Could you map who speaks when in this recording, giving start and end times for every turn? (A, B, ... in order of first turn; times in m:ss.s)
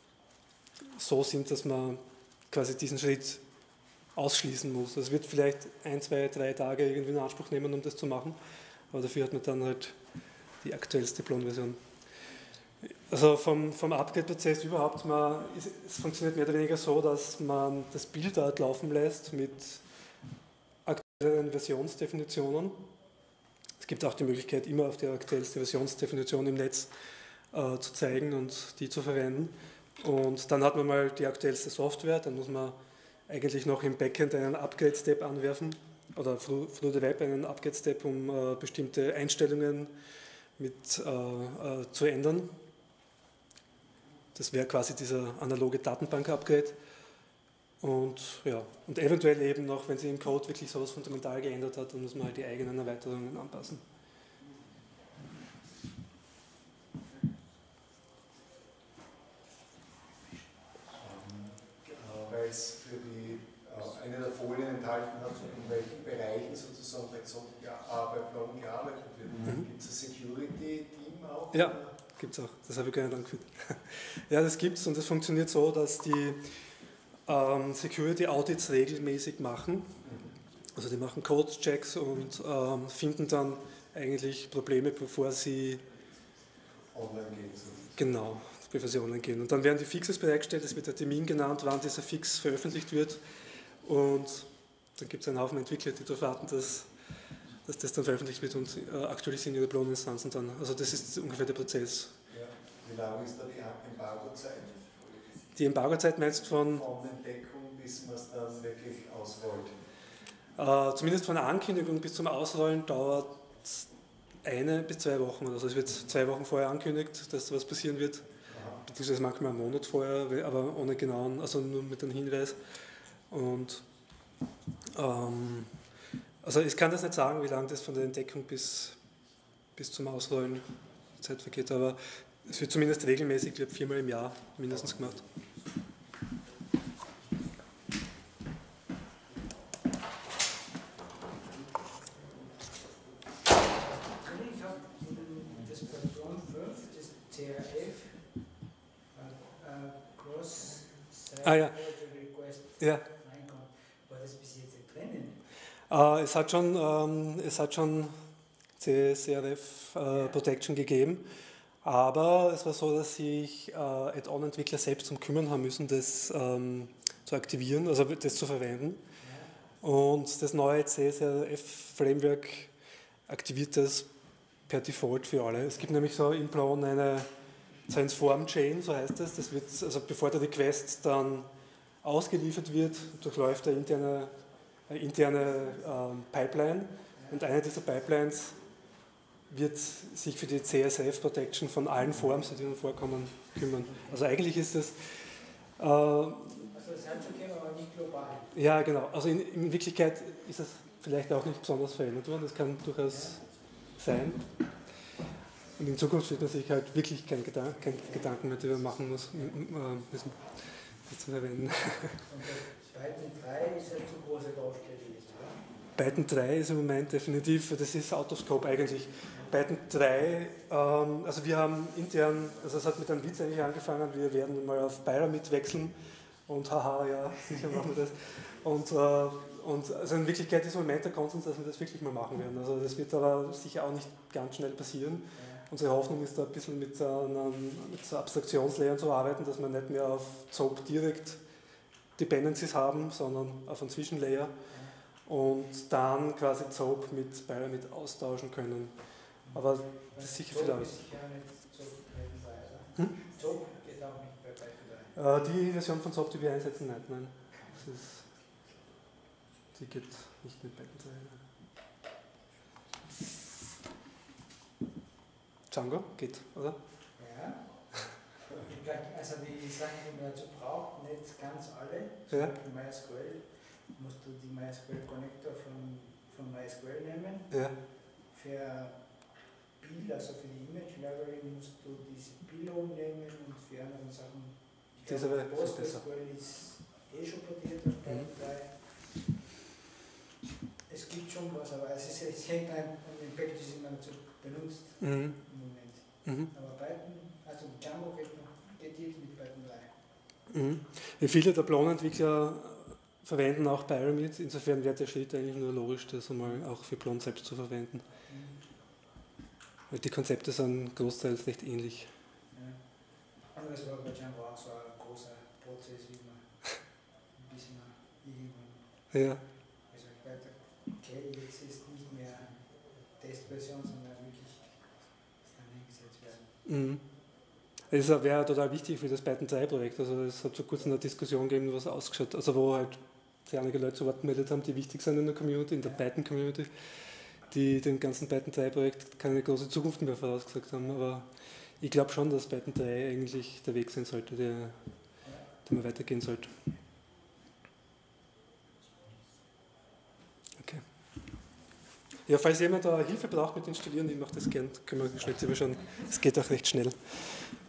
0:01.0-0:03.4 A
0:04.1-0:08.4 A
0:08.9-0:10.0 A
0:10.6-0:11.8 A
0:13.1-0:19.8 A
0:20.8-0:22.8 A
0:23.8-0:26.9 A
0:27.5-0:32.8 A
0:33.3-0:39.9 A
0:40.6-0:42.6 A
0:44.3-0:46.8 A
0:47.8-0:53.8 A
1:02.2-1:11.5 B
1:09.4-1:09.7 A
1:11.5-1:16.5 A
1:17.2-1:20.0 A
1:20.7-1:25.8 A
1:27.0-1:27.8 B
1:27.9-1:33.2 A
1:33.8-1:36.9 A
1:37.6-1:42.1 A
1:42.9-1:44.7 B
1:45.5-1:46.9 A
1:46.9-1:49.7 B
1:50.6-1:53.8 A
1:54.4-2:02.6 A
2:03.3-2:03.8 A
2:04.9-2:05.7 A
2:06.4-2:09.0 A
2:09.7-2:15.2 A
2:23.6-2:28.2 C
2:29.1-2:35.4 C
2:31.4-2:31.8 A
2:32.8-2:33.0 A
2:35.9-2:38.1 A
2:38.8-2:41.2 A
2:41.8-2:49.0 A
2:49.2-2:49.5 C
2:49.8-2:52.7 A
2:53.3-2:54.1 A
2:54.7-2:57.3 A
2:57.9-3:01.5 A
3:02.0-3:04.3 A
3:04.9-3:08.6 A
3:07.2-3:07.4 C
3:09.5-3:15.2 A
3:15.8-3:16.7 A
3:16.7-3:18.5 C
3:18.5-3:23.4 A
3:23.1-3:23.4 C
3:24.0-3:24.4 A
3:25.8-3:32.2 A
3:32.2-3:35.6 C
3:35.9-3:46.0 A
3:46.5-4:01.4 A
3:55.3-3:55.7 C
4:02.2-4:04.6 A
4:04.7-4:05.0 C
4:05.2-4:08.9 A
4:09.4-4:15.1 C
4:09.5-4:11.0 A
4:15.1-4:18.3 A
4:19.7-4:21.4 A
4:25.7-4:26.8 A
4:27.2-4:27.7 C
4:28.5-4:37.5 C
4:37.5-4:37.8 A
4:38.3-4:39.0 C
4:39.8-4:48.8 C
4:45.0-4:46.0 A
4:50.9-4:59.9 C
4:55.0-4:55.4 A
4:56.2-4:56.5 A
5:00.5-5:08.0 A
5:08.3-5:08.6 C
5:09.9-5:12.1 A
5:12.5-5:12.8 C
5:13.5-5:16.5 C
5:17.3-5:18.9 C
5:19.1-5:19.4 A
5:19.9-5:24.8 C
5:25.4-5:26.5 C
5:26.6-5:27.0 A
5:27.9-5:36.7 A
5:37.5-5:41.3 A
5:41.8-5:44.8 A
5:45.2-5:45.5 C
5:45.6-5:46.5 A
5:52.3-5:57.2 A